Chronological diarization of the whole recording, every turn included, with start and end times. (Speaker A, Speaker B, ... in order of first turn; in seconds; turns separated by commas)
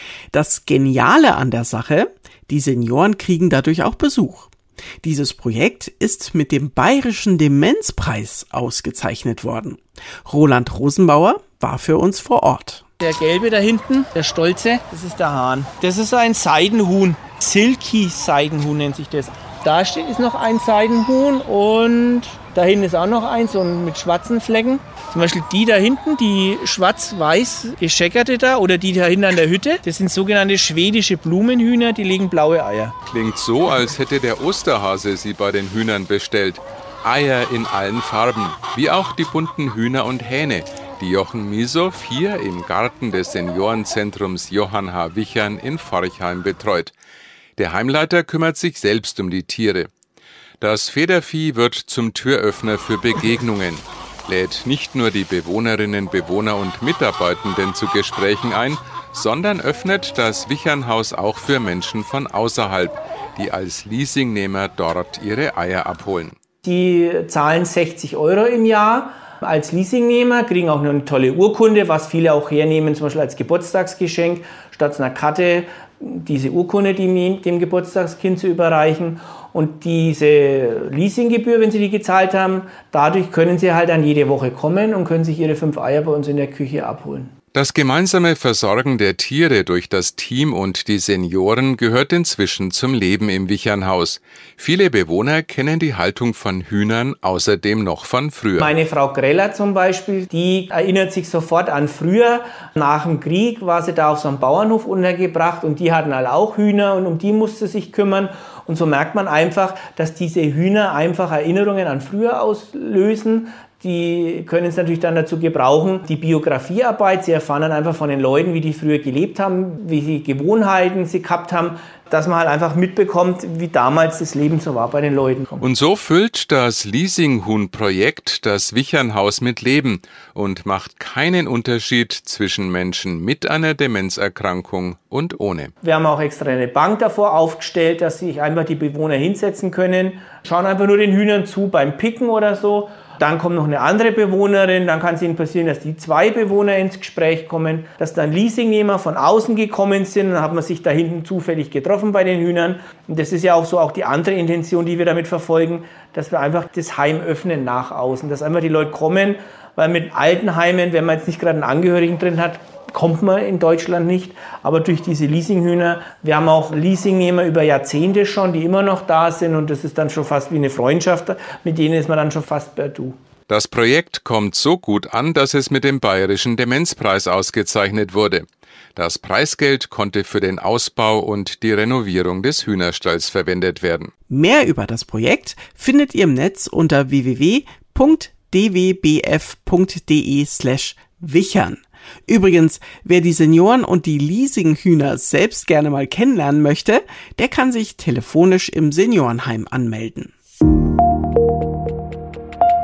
Speaker A: 0.3-4.5, Speaker A: 5.0-12.8, Speaker B: 13.0-32.9, Speaker C: 33.1-46.9, Speaker C: 47.6-49.9, Speaker C: 50.6-66.3, Speaker B: 66.6-87.3, Speaker C: 87.5-98.7, Speaker B: 98.6-125.6, Speaker C: 125.6-135.7, Speaker B: 135.8-173.2, Speaker C: 173.5-184.1, Speaker A: 184.3-200.3